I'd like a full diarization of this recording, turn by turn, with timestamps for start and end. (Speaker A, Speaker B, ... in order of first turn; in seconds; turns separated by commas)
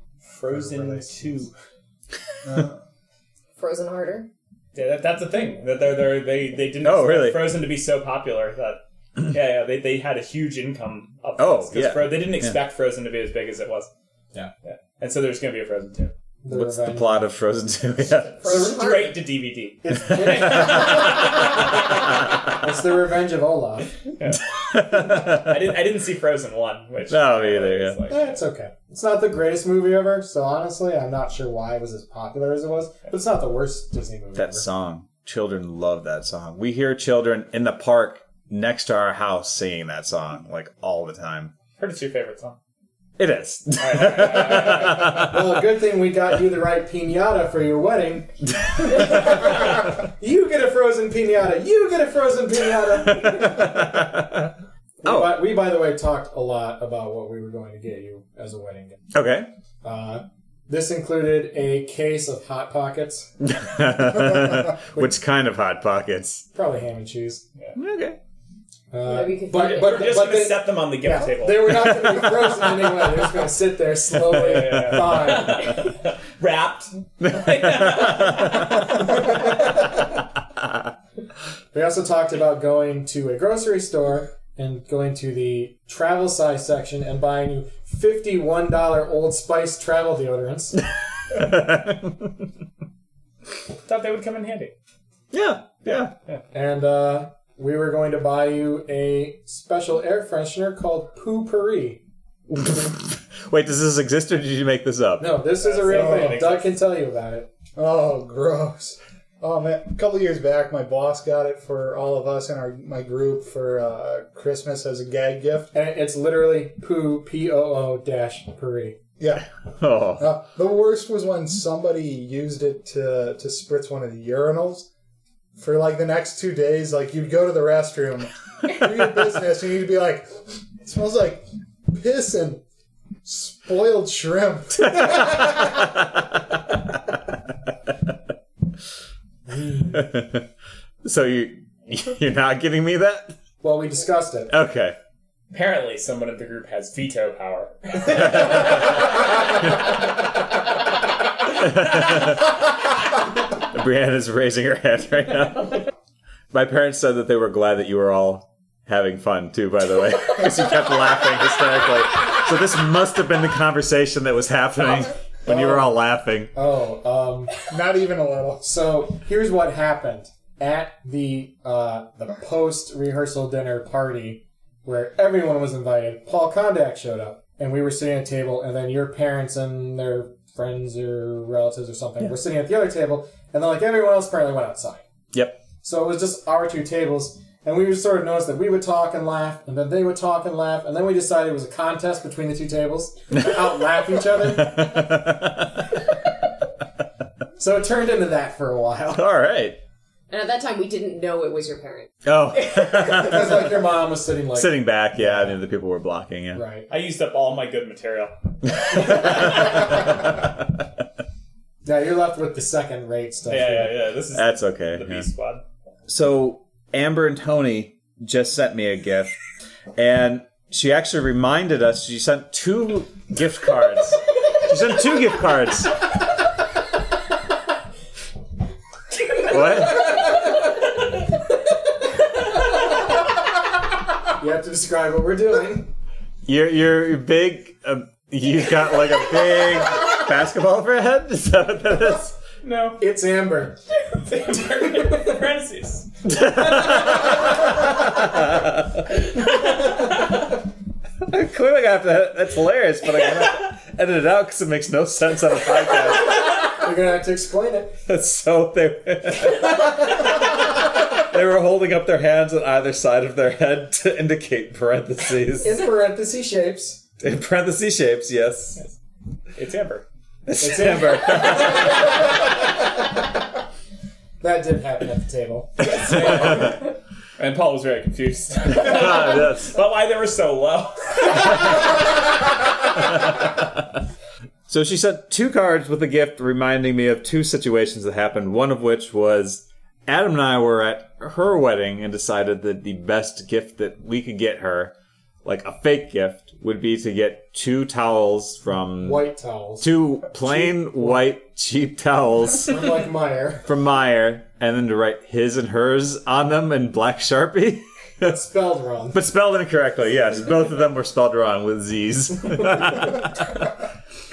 Speaker A: 0.3-1.5, Speaker B: 0.5-1.4, Speaker C: 2.4-2.7, Speaker D: 3.6-4.3, Speaker A: 4.7-13.9, Speaker E: 6.8-7.6, Speaker E: 11.4-12.6, Speaker A: 14.6-16.1, Speaker B: 16.4-17.3, Speaker E: 16.5-18.7, Speaker D: 18.4-19.1, Speaker B: 18.4-19.1, Speaker A: 18.5-21.7, Speaker B: 19.8-21.3, Speaker E: 20.1-21.1, Speaker B: 22.5-23.9, Speaker A: 24.2-28.3, Speaker E: 24.7-25.6, Speaker E: 27.1-28.0, Speaker B: 28.1-34.6, Speaker E: 34.3-41.5, Speaker A: 41.8-42.6, Speaker E: 43.2-45.5, Speaker A: 43.8-45.2, Speaker B: 44.9-48.3, Speaker B: 48.9-54.2, Speaker E: 53.0-54.5, Speaker B: 55.0-59.0, Speaker E: 55.0-55.4, Speaker E: 59.1-59.5, Speaker B: 59.8-63.3, Speaker E: 63.4-66.5, Speaker B: 66.5-67.4, Speaker E: 67.7-68.2, Speaker B: 68.9-75.8, Speaker D: 69.0-70.1, Speaker A: 69.5-71.9, Speaker E: 71.8-72.5, Speaker A: 74.1-79.4, Speaker E: 77.2-79.2, Speaker E: 80.6-80.9, Speaker B: 81.7-90.8, Speaker E: 91.3-92.3, Speaker A: 93.8-94.7, Speaker E: 95.3-96.1, Speaker B: 96.5-102.0, Speaker E: 102.5-105.4, Speaker B: 105.2-107.5, Speaker A: 105.6-106.7, Speaker C: 105.8-106.4, Speaker C: 107.8-115.7, Speaker B: 115.7-119.0, Speaker C: 119.2-119.5, Speaker E: 119.8-120.4, Speaker C: 120.2-124.9, Speaker C: 125.6-132.6, Speaker C: 133.2-136.0, Speaker E: 135.0-135.7, Speaker E: 139.7-140.5, Speaker E: 141.0-143.3, Speaker B: 143.6-144.5, Speaker E: 144.5-144.9, Speaker A: 145.5-149.2, Speaker E: 148.1-148.8, Speaker E: 151.5-152.6, Speaker E: 153.6-155.9, Speaker E: 156.5-166.5, Speaker B: 165.4-165.9, Speaker B: 166.5-167.6, Speaker C: 167.7-168.7, Speaker B: 168.6-185.0, Speaker E: 185.3-185.6, Speaker B: 185.8-194.9, Speaker E: 194.3-195.8, Speaker B: 197.6-199.2, Speaker E: 199.1-199.8, Speaker D: 200.3-203.5, Speaker E: 202.2-203.8, Speaker B: 203.0-205.6, Speaker E: 204.5-206.6, Speaker B: 206.5-206.9, Speaker A: 206.9-208.3, Speaker E: 208.9-210.0, Speaker A: 208.9-209.4, Speaker B: 211.8-214.0, Speaker A: 213.5-215.6, Speaker E: 214.3-215.3, Speaker E: 216.1-219.3, Speaker E: 219.9-225.9, Speaker E: 229.4-230.3, Speaker B: 234.4-235.9, Speaker E: 236.4-242.3, Speaker A: 242.6-243.0, Speaker B: 243.0-243.8, Speaker A: 244.2-247.3, Speaker E: 246.2-249.2, Speaker E: 251.2-256.6, Speaker B: 256.8-258.0, Speaker E: 258.1-265.8, Speaker B: 265.6-267.0, Speaker E: 267.2-268.8, Speaker A: 269.5-270.0, Speaker E: 270.4-272.1, Speaker B: 270.6-271.9, Speaker B: 274.4-276.1, Speaker A: 275.8-282.0, Speaker E: 278.7-279.7, Speaker E: 284.7-294.9, Speaker E: 295.4-299.3, Speaker B: 299.0-299.9, Speaker E: 299.8-302.9, Speaker B: 302.6-303.7, Speaker E: 303.6-308.2, Speaker B: 308.2-309.2, Speaker E: 309.1-313.4